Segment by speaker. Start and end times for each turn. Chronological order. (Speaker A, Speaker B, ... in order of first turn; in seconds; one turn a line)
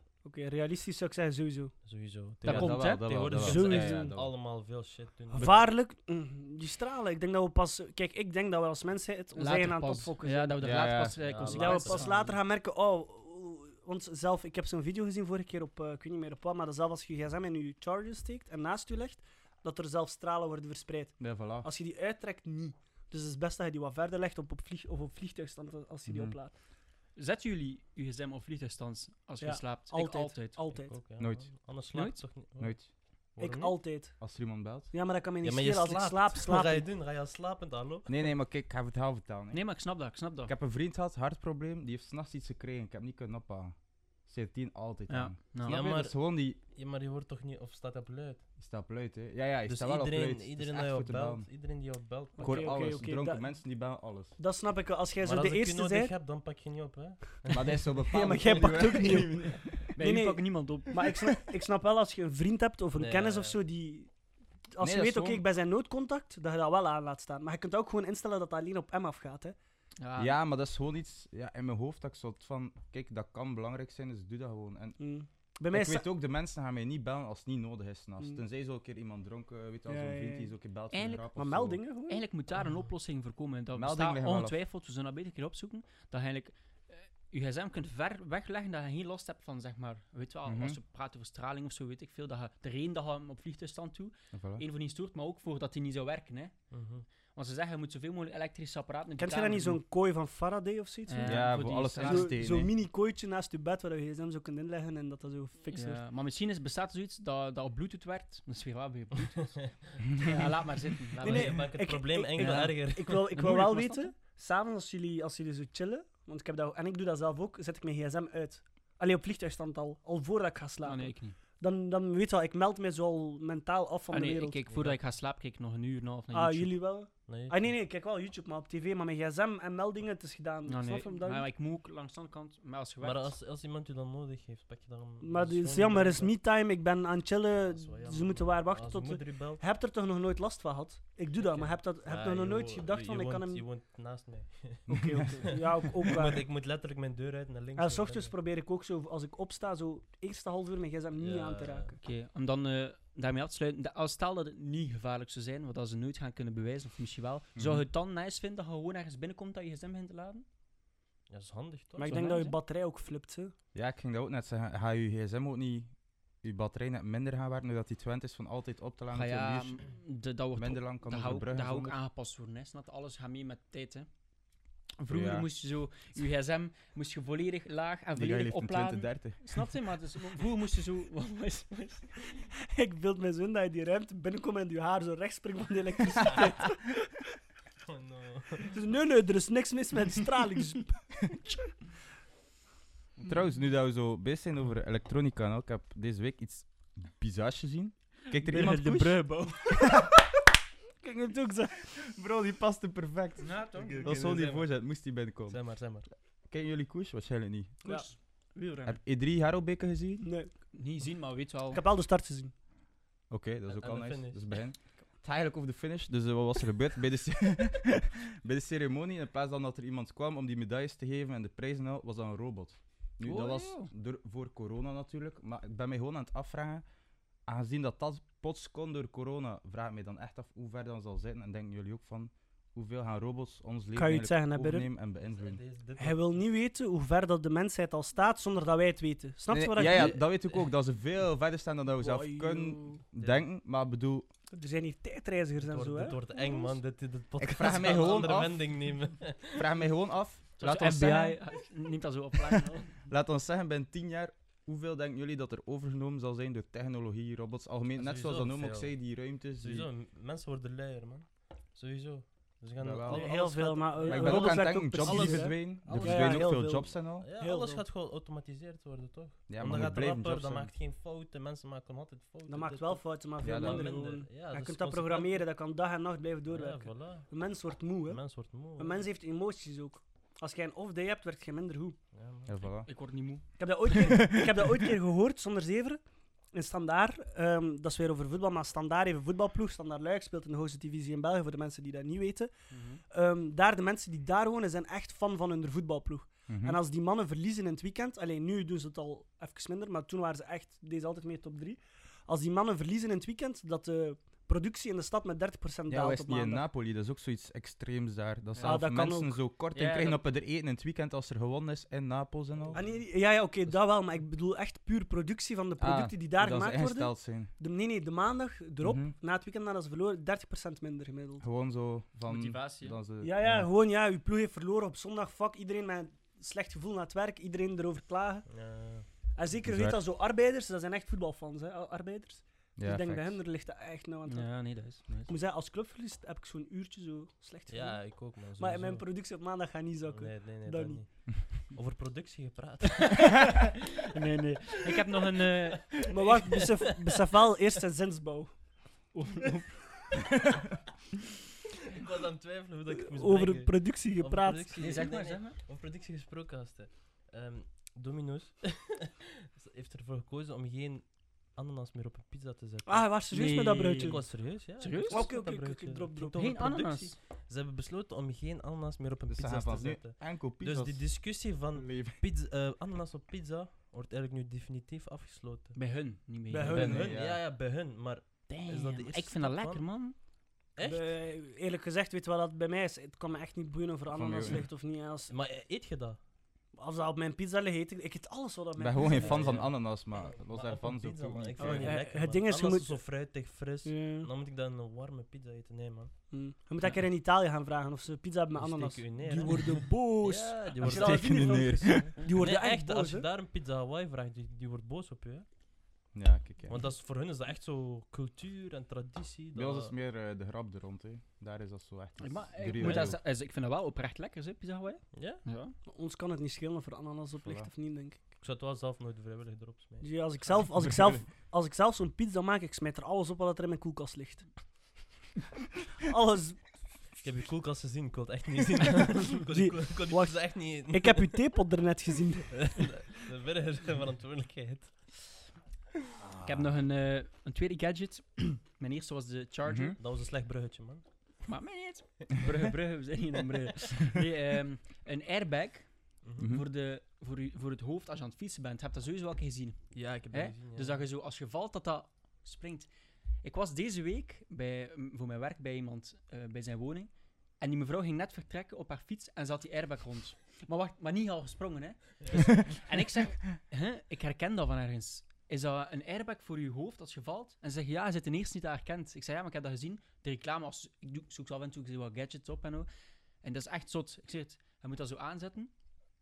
Speaker A: 0.2-1.7
Speaker B: 1.8-5.7
Speaker C: 2.4-4.3
Speaker D: 2.5-3.0
Speaker A: 2.5-4.1
Speaker A: 5.3-10.8
Speaker C: 5.3-5.6
Speaker D: 9.3-12.3
Speaker C: 10.6-11.3
Speaker B: 11.2-12.4
Speaker A: 11.4-26.5
Speaker C: 21.2-21.7
Speaker C: 26.1-26.4
Speaker D: 27.1-30.6
Speaker A: 29.4-31.0
Speaker B: 30.7-33.8
Speaker C: 31.2-31.5
Speaker D: 31.9-32.2
Speaker C: 32.6-32.9
Speaker A: 33.4-34.3
Speaker C: 34.2-34.9
Speaker A: 34.9-36.9
Speaker B: 35.4-38.1
Speaker C: 38.1-39.6
Speaker D: 39.5-40.5
Speaker C: 40.5-46.6
Speaker D: 45.1-45.8
Speaker B: 45.6-48.5
Speaker C: 48.6-51.5
Speaker B: 49.7-52.9
Speaker A: 52.4-53.6
Speaker C: 52.4-54.3
Speaker A: 54.4-56.1
Speaker B: 55.2-57.8
Speaker C: 57.5-59.8
Speaker A: 58.0-64.1
Speaker D: 59.9-61.3
Speaker B: 62.9-63.5
Speaker A: 64.7-69.5
Speaker C: 64.8-65.4
Speaker D: 70.0-70.3
Speaker C: 70.2-75.0
Speaker A: 75.0-76.0
Speaker C: 75.7-81.8
Speaker A: 79.9-80.5
Speaker D: 80.9-81.3
Speaker A: 81.3-82.2
Speaker D: 82.1-96.5
Speaker C: 83.7-84.6
Speaker C: 90.5-90.8
Speaker C: 94.3-94.6
Speaker B: 96.7-97.1
Speaker D: 97.3-99.8
Speaker A: 99.2-106.0
Speaker D: 101.1-102.4
Speaker C: 101.2-102.7
Speaker D: 105.7-111.8
Speaker A: 110.3-110.5
Speaker B: 111.2-113.3
Speaker A: 111.2-124.6
Speaker D: 112.3-114.1
Speaker D: 120.8-121.4
Speaker D: 124.1-126.7
Speaker B: 124.7-125.0
Speaker A: 126.3-131.5
Speaker B: 127.3-127.6
Speaker D: 130.7-133.3
Speaker B: 133.0-136.3
Speaker A: 135.2-143.7
Speaker B: 137.6-139.6
Speaker B: 141.4-148.3
Speaker A: 144.9-146.4
Speaker A: 147.8-152.0
Speaker B: 151.2-152.0
Speaker D: 152.0-160.4
Speaker C: 157.6-157.8
Speaker B: 161.3-162.2
Speaker A: 162.0-163.5
Speaker D: 162.0-162.6
Speaker C: 163.7-169.9
Speaker D: 169.1-174.1
Speaker C: 170.5-172.0
Speaker D: 175.0-182.4
Speaker C: 175.1-175.4
Speaker C: 178.2-179.6
Speaker A: 182.7-187.1
Speaker B: 187.8-188.8
Speaker A: 188.7-191.2
Speaker C: 193.2-199.8
Speaker D: 198.4-199.8
Speaker A: 201.0-201.8
Speaker C: 201.8-205.9
Speaker D: 203.4-204.2
Speaker B: 204.0-206.1
Speaker C: 206.5-207.8
Speaker D: 207.8-209.0
Speaker C: 208.8-210.3
Speaker A: 210.2-210.5
Speaker D: 210.7-211.8
Speaker A: 211.7-212.5
Speaker C: 213.3-226.8
Speaker B: 213.7-214.6
Speaker D: 223.2-223.9
Speaker C: 227.4-235.6
Speaker A: 233.9-234.9
Speaker B: 235.2-236.4
Speaker A: 236.0-240.2
Speaker C: 239.5-244.3
Speaker A: 242.0-243.0
Speaker B: 243.2-243.4
Speaker A: 244.5-246.8
Speaker B: 245.6-249.7
Speaker C: 247.4-250.9
Speaker D: 250.6-252.9
Speaker A: 250.7-251.3
Speaker C: 253.1-259.9
Speaker B: 257.9-275.5
Speaker C: 262.8-263.3
Speaker A: 263.1-267.8
Speaker C: 264.1-267.3
Speaker C: 269.5-270.7
Speaker A: 272.5-282.0
Speaker C: 273.4-274.0
Speaker B: 276.5-277.4
Speaker B: 278.1-279.1
Speaker B: 282.1-282.5
Speaker C: 282.4-282.9
Speaker D: 282.8-283.5
Speaker A: 283.6-292.5
Speaker C: 284.2-284.5
Speaker D: 292.7-293.0
Speaker A: 293.1-306.6
Speaker C: 296.5-296.8
Speaker C: 305.9-312.9
Speaker A: 308.6-309.4
Speaker D: 309.7-310.2
Speaker B: 312.6-313.0
Speaker A: 312.7-321.4
Speaker C: 315.8-317.5
Speaker C: 318.8-319.1
Speaker C: 321.4-323.7
Speaker D: 322.2-323.0
Speaker A: 323.2-328.6
Speaker B: 328.5-329.1
Speaker A: 329.3-341.1
Speaker C: 329.6-330.0
Speaker C: 332.8-333.4
Speaker D: 334.3-335.3
Speaker B: 337.7-339.2
Speaker B: 340.1-343.6
Speaker D: 344.1-346.3
Speaker A: 346.1-348.7
Speaker D: 349.1-349.9
Speaker B: 351.9-363.1
Speaker A: 353.1-354.9
Speaker D: 354.8-355.6
Speaker A: 362.9-364.4
Speaker D: 363.3-365.3
Speaker B: 363.9-375.8
Speaker A: 365.1-366.5
Speaker D: 366.3-367.1
Speaker C: 369.3-372.2
Speaker D: 375.7-376.9
Speaker A: 376.5-377.2
Speaker B: 376.6-379.9
Speaker C: 376.6-377.4
Speaker D: 378.5-380.1
Speaker B: 380.8-381.1
Speaker A: 380.8-385.3
Speaker C: 384.1-384.7
Speaker B: 385.3-386.2
Speaker A: 386.7-389.6
Speaker C: 388.8-392.0
Speaker B: 389.0-396.1
Speaker A: 391.6-393.1
Speaker A: 393.8-394.3
Speaker A: 396.3-403.3
Speaker B: 398.5-405.4
Speaker C: 400.8-402.1
Speaker C: 406.1-406.8
Speaker B: 406.7-409.9
Speaker C: 409.5-413.2
Speaker D: 412.2-415.7
Speaker B: 412.8-413.1
Speaker B: 415.1-415.4
Speaker A: 415.9-418.2
Speaker B: 418.2-420.6
Speaker A: 420.0-424.6
Speaker A: 426.0-426.9
Speaker B: 427.2-431.4
Speaker A: 429.5-432.9
Speaker B: 432.6-435.4
Speaker C: 436.2-436.7
Speaker D: 436.4-440.0
Speaker C: 439.6-439.9
Speaker B: 440.0-441.1
Speaker D: 441.4-452.9
Speaker B: 446.2-446.5
Speaker C: 446.4-446.6
Speaker B: 449.9-451.0
Speaker D: 453.4-472.9
Speaker D: 473.4-475.7